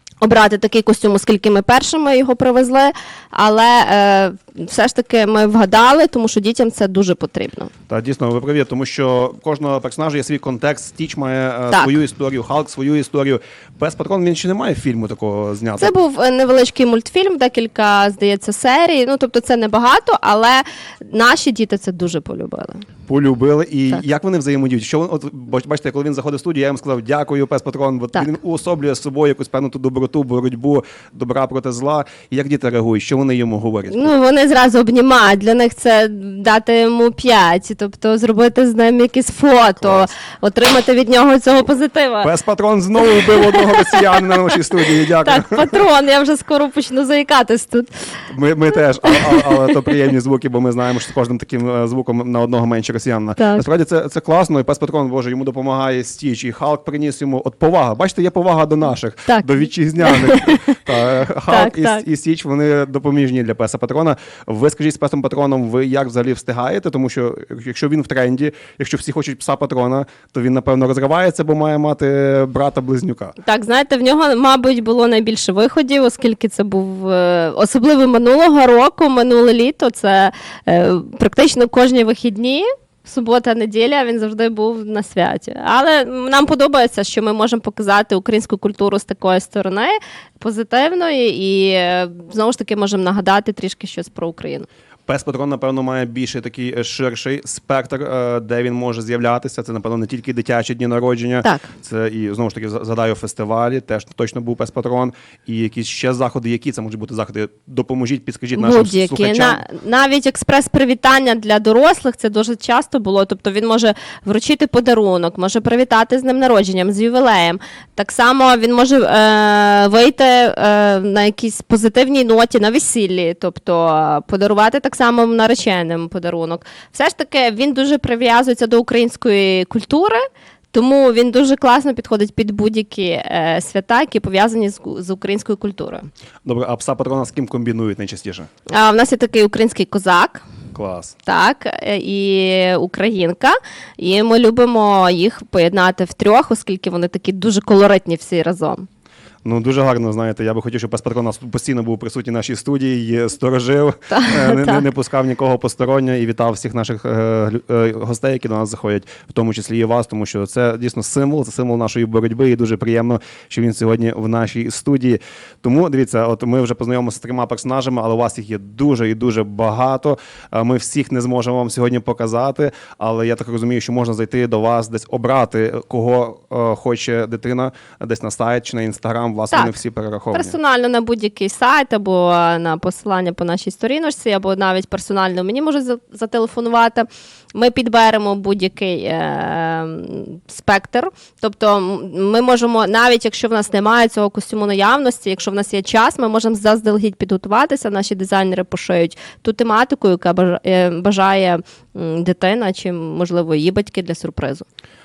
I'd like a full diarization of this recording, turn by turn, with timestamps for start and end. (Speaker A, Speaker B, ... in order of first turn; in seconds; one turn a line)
Speaker A: 0.2-7.7
Speaker B: 7.9-15.9
Speaker A: 11.7-12.0
Speaker A: 15.8-22.9
Speaker B: 23.1-34.1
Speaker A: 33.9-42.3
Speaker B: 39.8-40.1
Speaker B: 42.2-45.8
Speaker A: 43.1-44.5
Speaker A: 45.2-48.0
Speaker B: 48.3-73.3
Speaker A: 49.1-49.7
Speaker A: 53.4-53.6
Speaker A: 59.3-60.8
Speaker A: 61.5-62.0
Speaker A: 73.4-94.7
Speaker B: 95.1-109.6
Speaker A: 101.4-101.7
Speaker A: 108.5-136.1
Speaker B: 136.4-138.5
Speaker A: 138.7-140.4
Speaker B: 140.7-141.1
Speaker A: 141.2-148.8
Speaker B: 149.4-180.6
Speaker A: 154.1-154.8
Speaker A: 179.5-179.8
Speaker A: 180.3-204.6